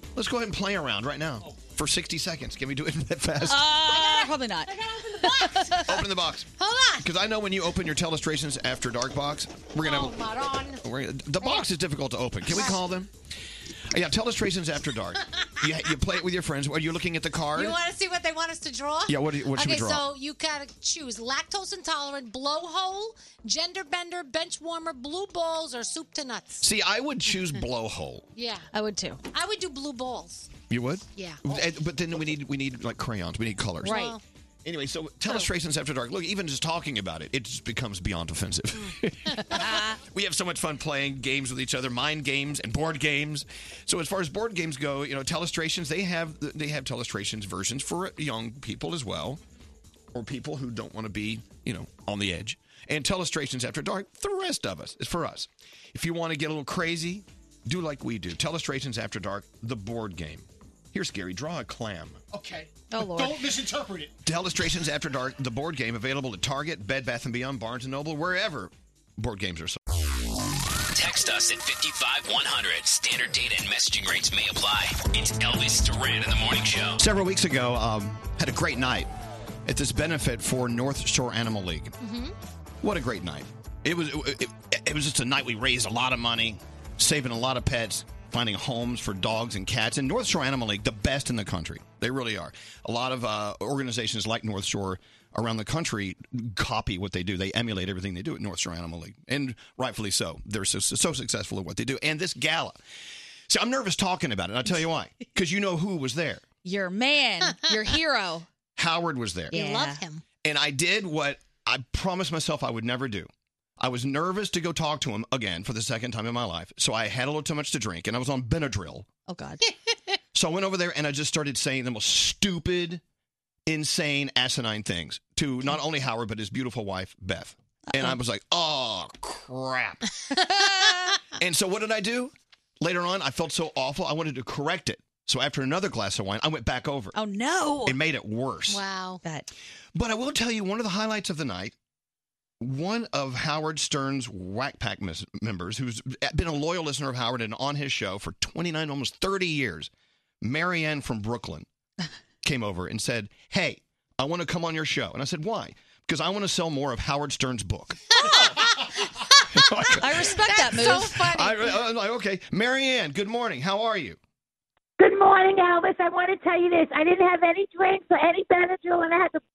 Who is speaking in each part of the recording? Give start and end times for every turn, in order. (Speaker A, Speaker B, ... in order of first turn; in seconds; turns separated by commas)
Speaker A: 0.1-3.7, Speaker B: 1.4-1.7, Speaker C: 3.4-5.8, Speaker D: 3.9-5.9, Speaker A: 5.8-10.2, Speaker D: 6.6-7.0, Speaker D: 9.8-10.8, Speaker A: 10.8-13.1, Speaker D: 12.5-12.8, Speaker A: 13.9-17.8, Speaker D: 17.5-26.6, Speaker A: 19.1-20.0, Speaker A: 26.6-28.2, Speaker D: 28.3-28.7, Speaker C: 28.7-29.2, Speaker D: 29.3-30.5, Speaker A: 30.7-34.0, Speaker D: 31.1-31.4, Speaker D: 33.8-34.2, Speaker C: 33.8-34.1, Speaker A: 34.6-49.4, Speaker C: 39.6-40.0, Speaker A: 50.1-62.2, Speaker B: 62.3-64.1, Speaker A: 64.2-69.8, Speaker E: 70.9-77.0, Speaker A: 77.0-79.1, Speaker A: 79.7-81.9, Speaker D: 82.0-82.3, Speaker A: 82.8-102.8, Speaker A: 103.5-106.4, Speaker C: 106.6-108.5, Speaker A: 108.8-109.5, Speaker D: 109.5-110.2, Speaker C: 109.5-110.0, Speaker A: 110.4-119.1, Speaker C: 119.3-119.6, Speaker A: 120.3-123.0, Speaker A: 123.7-130.0, Speaker C: 127.9-128.2, Speaker D: 130.3-131.1, Speaker C: 130.5-131.1, Speaker A: 131.4-137.2, Speaker C: 137.1-138.0, Speaker A: 137.8-138.8, Speaker D: 138.7-139.2, Speaker A: 139.9-141.7, Speaker A: 142.6-149.9, Speaker A: 150.4-151.7, Speaker A: 152.4-158.0, Speaker D: 158.2-159.4, Speaker A: 159.5-164.2, Speaker C: 160.0-161.2, Speaker D: 160.3-161.7, Speaker F: 165.0-169.4